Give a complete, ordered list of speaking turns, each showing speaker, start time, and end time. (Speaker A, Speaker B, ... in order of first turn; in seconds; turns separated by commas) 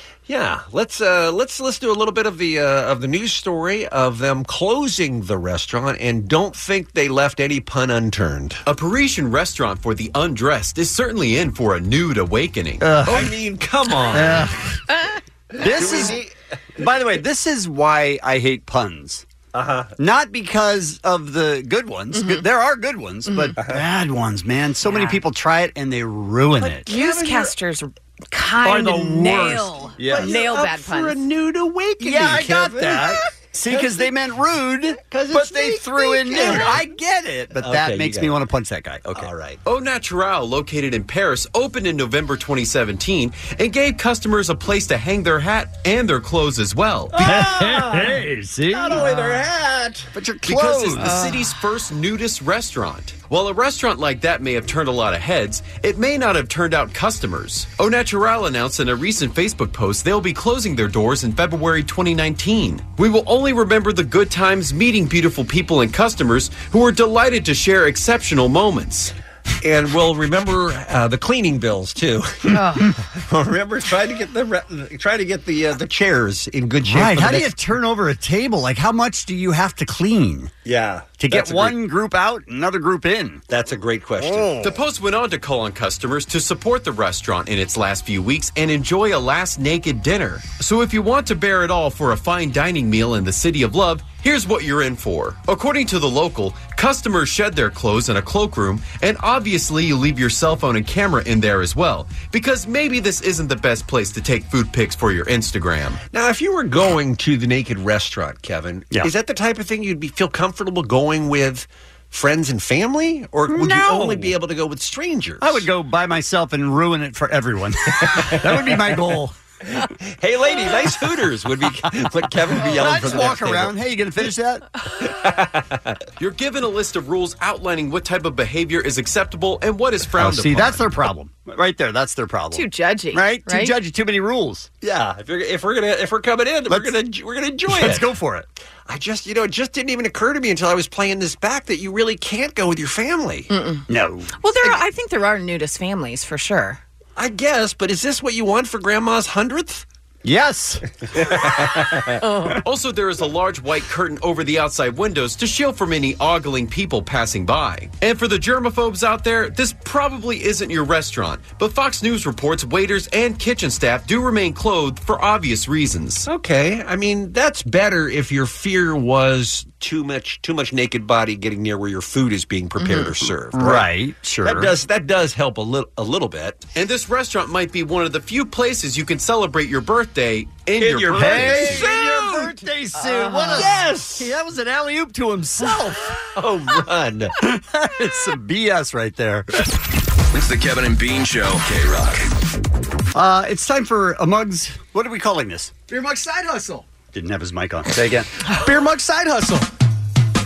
Speaker A: 0.3-8.6, Speaker B: 8.7-12.8, Speaker C: 12.8-13.3, Speaker A: 13.1-14.5, Speaker C: 14.1-14.7, Speaker A: 15.5-16.3, Speaker C: 15.6-16.2, Speaker C: 16.8-19.2, Speaker A: 19.5-19.9, Speaker C: 20.0-26.9, Speaker D: 22.1-22.4, Speaker D: 23.3-23.6, Speaker A: 23.6-23.8, Speaker D: 24.8-25.2, Speaker D: 26.8-31.2, Speaker A: 26.9-27.5, Speaker C: 28.6-30.4, Speaker A: 30.0-34.1, Speaker C: 32.0-39.3, Speaker A: 35.0-36.9, Speaker A: 37.5-38.4, Speaker A: 39.1-39.6, Speaker B: 39.6-47.2, Speaker A: 47.1-50.1, Speaker C: 47.2-49.4, Speaker C: 50.1-51.3, Speaker B: 50.4-69.1, Speaker D: 51.0-51.5, Speaker A: 69.6-77.6, Speaker D: 72.5-72.9, Speaker C: 76.8-80.5, Speaker A: 80.6-81.8, Speaker C: 81.2-83.4, Speaker A: 83.5-84.6, Speaker B: 84.6-106.0, Speaker A: 106.1-115.7, Speaker C: 113.5-114.3, Speaker C: 115.4-119.3, Speaker A: 118.0-118.9, Speaker A: 119.7-123.8, Speaker C: 122.6-124.6, Speaker A: 125.0-126.0, Speaker B: 126.2-130.9, Speaker C: 130.1-134.7, Speaker D: 132.5-133.7, Speaker A: 134.8-138.1, Speaker C: 136.7-136.9, Speaker C: 137.7-138.5, Speaker A: 138.8-143.5, Speaker D: 143.5-143.8, Speaker C: 143.9-144.3, Speaker D: 144.4-146.8, Speaker A: 147.2-149.8, Speaker C: 150.2-150.8, Speaker A: 151.1-152.2, Speaker D: 152.2-152.6, Speaker B: 152.6-166.3, Speaker A: 166.3-173.9, Speaker D: 172.8-173.1, Speaker C: 173.5-174.7, Speaker A: 174.4-176.6, Speaker B: 176.7-181.9, Speaker A: 180.8-182.5, Speaker C: 180.9-186.1, Speaker D: 183.0-183.6, Speaker A: 183.5-184.3, Speaker A: 186.3-187.3, Speaker C: 187.4-189.5, Speaker E: 190.3-192.3, Speaker C: 193.1-195.7, Speaker F: 195.9-196.9, Speaker C: 197.1-198.3, Speaker F: 198.5-199.7